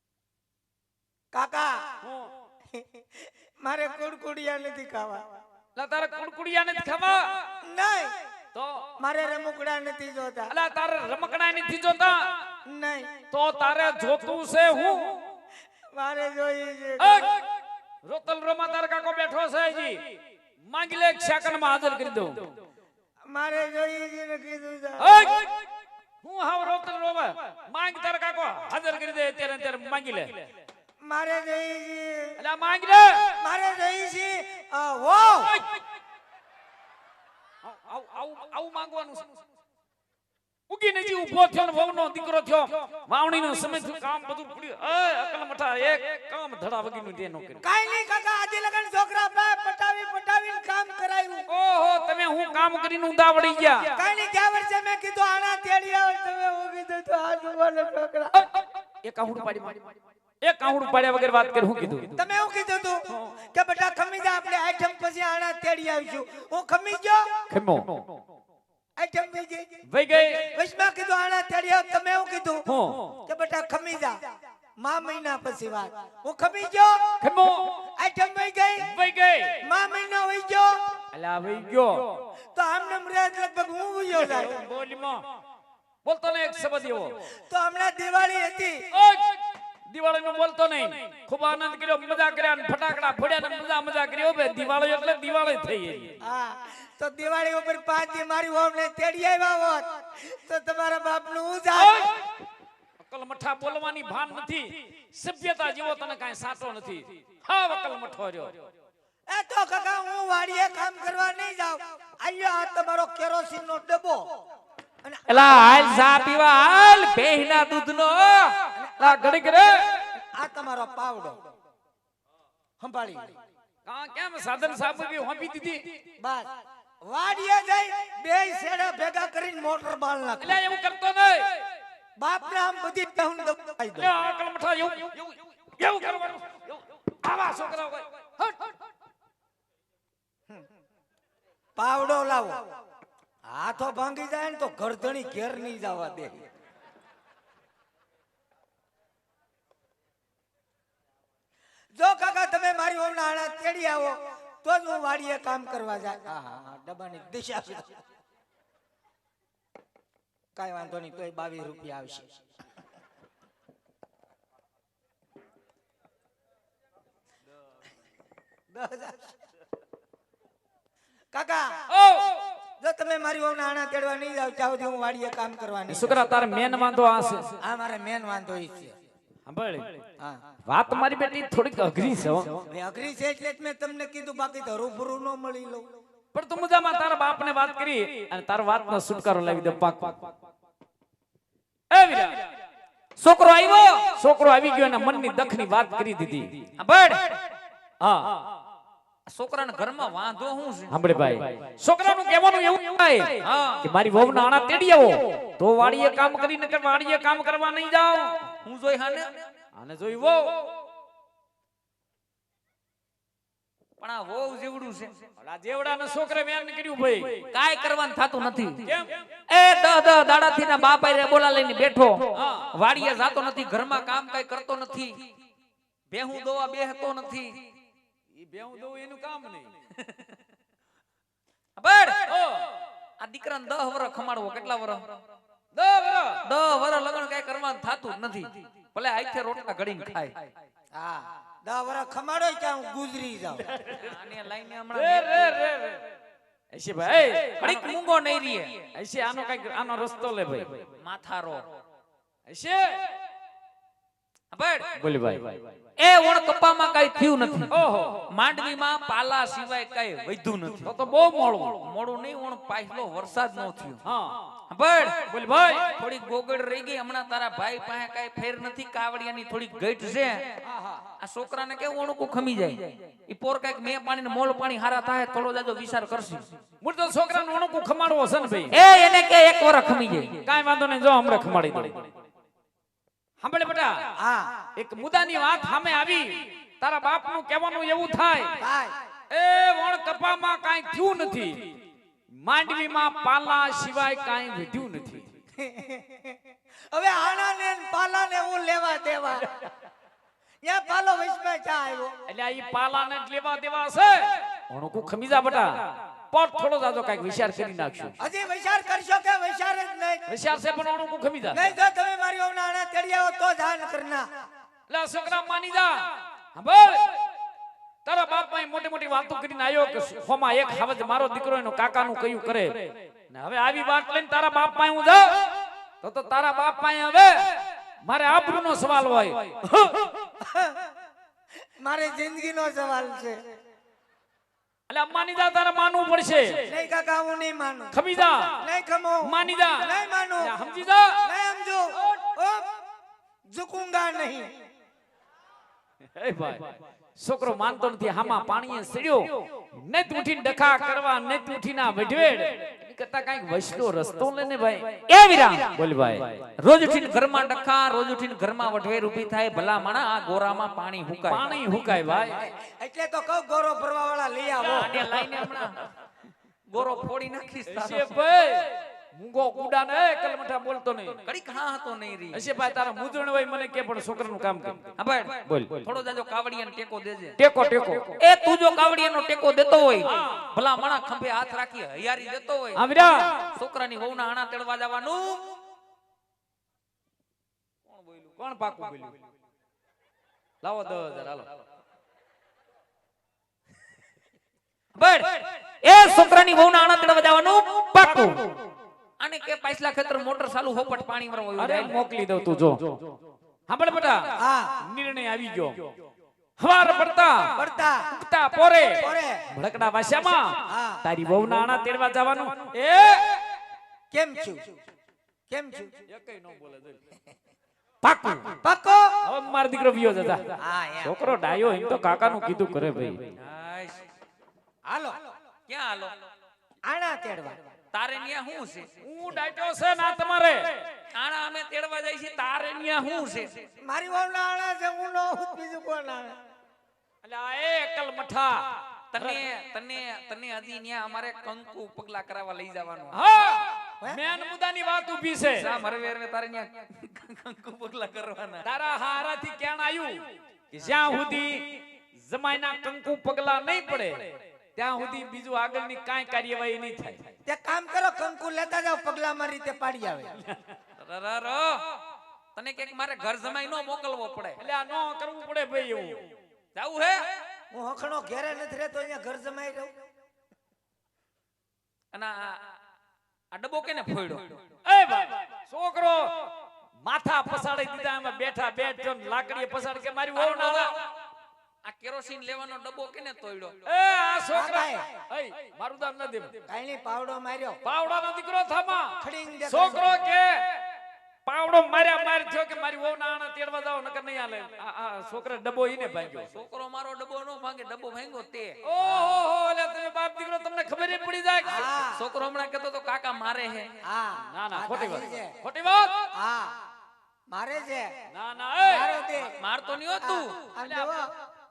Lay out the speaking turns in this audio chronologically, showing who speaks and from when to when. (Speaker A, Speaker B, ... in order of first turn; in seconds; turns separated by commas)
Speaker A: 1.3-1.8, Speaker B: 2.0-2.3, Speaker A: 2.7-3.0, Speaker A: 3.6-5.2, Speaker B: 5.8-7.2, Speaker A: 7.6-8.1, Speaker B: 8.5-8.9, Speaker A: 9.0-10.5, Speaker B: 10.5-12.2, Speaker A: 12.7-13.1, Speaker B: 13.3-15.2, Speaker A: 15.9-17.3, Speaker B: 17.0-17.4, Speaker B: 18.0-20.0, Speaker B: 20.7-22.6, Speaker A: 23.3-25.3, Speaker B: 25.0-25.6, Speaker B: 26.2-30.4, Speaker A: 31.0-32.4, Speaker B: 32.4-33.3, Speaker A: 33.4-35.6, Speaker B: 35.4-35.8, Speaker B: 37.7-39.4, Speaker B: 40.7-47.6, Speaker A: 47.6-51.5, Speaker B: 51.5-53.9, Speaker A: 53.9-58.4, Speaker B: 59.0-59.8, Speaker B: 60.4-62.2, Speaker A: 62.1-67.3, Speaker B: 67.5-68.2, Speaker A: 69.0-69.7, Speaker B: 69.9-70.5, Speaker A: 70.4-72.6, Speaker B: 72.7-73.1, Speaker A: 73.2-74.2, Speaker A: 74.8-77.0, Speaker B: 77.2-77.7, Speaker A: 78.0-78.9, Speaker B: 78.8-79.5, Speaker A: 79.6-80.8, Speaker B: 81.1-82.2, Speaker A: 82.5-84.6, Speaker B: 84.2-85.2, Speaker B: 86.0-87.2, Speaker A: 87.5-88.8, Speaker B: 88.9-89.3, Speaker B: 89.9-96.2, Speaker A: 96.2-102.0, Speaker B: 101.7-102.2, Speaker B: 103.0-108.6, Speaker A: 109.3-114.3, Speaker A: 115.0-115.8, Speaker C: 115.3-118.7, Speaker A: 118.7-119.4, Speaker B: 119.0-119.8, Speaker A: 120.2-121.4, Speaker A: 122.8-123.3, Speaker B: 123.8-126.0, Speaker A: 126.2-126.5, Speaker A: 127.0-130.6, Speaker B: 130.4-131.6, Speaker A: 132.2-134.1, Speaker B: 134.0-138.7, Speaker A: 141.8-142.7, Speaker A: 143.4-146.4, Speaker A: 151.9-157.9, Speaker A: 160.6-162.4, Speaker A: 168.7-169.3, Speaker A: 171.3-171.7, Speaker B: 171.9-172.4, Speaker A: 172.8-176.3, Speaker B: 175.9-177.5, Speaker A: 177.6-178.9, Speaker B: 179.5-180.0, Speaker B: 180.7-182.6, Speaker A: 182.7-185.9, Speaker B: 186.3-190.3, Speaker B: 191.9-192.4, Speaker C: 193.2-194.1, Speaker B: 194.2-196.7, Speaker C: 196.8-197.4, Speaker B: 198.0-198.4, Speaker C: 199.3-200.9, Speaker B: 200.9-208.3, Speaker C: 203.4-203.8, Speaker C: 208.6-209.3, Speaker B: 209.8-210.6, Speaker C: 214.0-215.2, Speaker B: 215.4-217.4, Speaker C: 217.5-218.9, Speaker B: 218.8-219.2, Speaker C: 219.5-225.3, Speaker B: 222.3-222.7, Speaker C: 226.1-227.6, Speaker B: 228.3-229.7, Speaker C: 230.0-230.3, Speaker C: 231.8-232.3, Speaker B: 232.3-232.7, Speaker C: 233.2-235.2, Speaker B: 235.7-236.4, Speaker C: 236.4-240.5, Speaker A: 240.9-243.7, Speaker C: 243.9-245.6, Speaker B: 244.9-246.0, Speaker B: 246.7-247.9, Speaker C: 247.6-248.9, Speaker B: 248.9-250.8, Speaker C: 251.0-251.7, Speaker B: 252.5-252.9, Speaker C: 254.5-254.9, Speaker B: 255.0-255.6, Speaker C: 256.0-257.8, Speaker B: 257.7-258.2, Speaker C: 258.3-260.9, Speaker B: 260.8-261.8, Speaker C: 261.8-264.0, Speaker B: 264.0-264.4, Speaker C: 264.7-270.5, Speaker B: 265.3-265.9, Speaker C: 271.2-276.5, Speaker B: 276.8-278.8, Speaker C: 278.7-280.4, Speaker B: 280.4-282.1, Speaker B: 283.4-284.0, Speaker A: 284.2-284.6, Speaker B: 284.8-288.6, Speaker A: 288.6-288.9, Speaker B: 289.3-291.7, Speaker B: 292.3-295.3, Speaker A: 295.6-296.3, Speaker A: 296.9-299.5, Speaker A: 300.6-302.1, Speaker B: 302.3-308.1, Speaker A: 308.2-310.2, Speaker B: 310.3-311.6, Speaker A: 311.5-314.3, Speaker B: 314.9-317.1, Speaker B: 318.0-325.4, Speaker B: 326.0-327.5, Speaker B: 328.0-330.1, Speaker A: 330.4-330.7, Speaker A: 331.8-333.4, Speaker B: 334.9-336.6, Speaker A: 336.7-337.9, Speaker B: 337.9-338.6, Speaker A: 338.6-340.5, Speaker B: 339.2-341.2, Speaker A: 341.2-342.6, Speaker A: 343.5-344.5, Speaker B: 346.1-355.0, Speaker C: 355.1-355.7, Speaker B: 355.7-356.5, Speaker C: 356.6-361.6, Speaker B: 361.3-362.4, Speaker A: 362.4-365.1, Speaker C: 364.6-365.8, Speaker C: 366.7-368.1, Speaker B: 367.7-371.2, Speaker C: 371.2-372.4, Speaker B: 372.3-374.9, Speaker C: 375.0-377.4, Speaker B: 375.4-375.9, Speaker B: 377.4-378.2, Speaker C: 378.2-385.4, Speaker B: 380.1-380.4, Speaker B: 382.7-383.5, Speaker C: 387.9-388.4, Speaker B: 388.4-389.1, Speaker B: 390.6-391.5, Speaker C: 394.9-398.5, Speaker B: 398.0-398.4, Speaker C: 399.2-402.0, Speaker B: 401.6-403.1, Speaker B: 403.7-405.9, Speaker A: 404.4-404.7, Speaker B: 406.6-407.6, Speaker A: 407.5-408.0, Speaker B: 408.1-413.3, Speaker A: 409.0-409.4, Speaker A: 410.7-411.0, Speaker A: 414.1-414.7, Speaker A: 415.5-415.9, Speaker B: 416.1-417.0, Speaker B: 418.0-418.6, Speaker A: 418.6-419.2, Speaker B: 419.2-423.3, Speaker A: 420.6-421.2, Speaker C: 423.4-424.1, Speaker A: 424.9-425.3, Speaker C: 425.7-426.1, Speaker A: 426.8-427.6, Speaker C: 427.9-428.9, Speaker B: 429.0-430.8, Speaker C: 431.1-433.6, Speaker A: 433.8-436.4, Speaker B: 437.2-438.7, Speaker C: 439.1-443.2, Speaker B: 443.1-445.7, Speaker C: 445.5-448.6, Speaker B: 448.6-457.2, Speaker A: 457.4-460.3, Speaker C: 461.0-461.8, Speaker C: 462.5-464.6, Speaker B: 464.6-466.2, Speaker C: 466.7-467.2, Speaker A: 467.7-469.9, Speaker C: 472.1-472.7, Speaker C: 473.5-474.6, Speaker B: 474.8-476.5, Speaker B: 477.0-481.0, Speaker C: 480.3-480.9, Speaker C: 481.8-483.8, Speaker B: 483.9-486.5, Speaker A: 484.5-485.1, Speaker A: 486.7-487.8, Speaker B: 487.8-489.1, Speaker A: 489.2-490.1, Speaker B: 489.7-490.6, Speaker B: 491.4-496.5, Speaker C: 496.5-499.3, Speaker B: 498.8-501.9, Speaker A: 501.6-502.2, Speaker C: 502.1-503.9, Speaker A: 504.0-505.5, Speaker B: 504.5-506.1, Speaker A: 506.3-506.8, Speaker A: 507.5-508.1, Speaker B: 508.3-509.1, Speaker A: 508.8-509.5, Speaker C: 509.6-510.6, Speaker A: 510.2-511.3, Speaker B: 510.8-511.1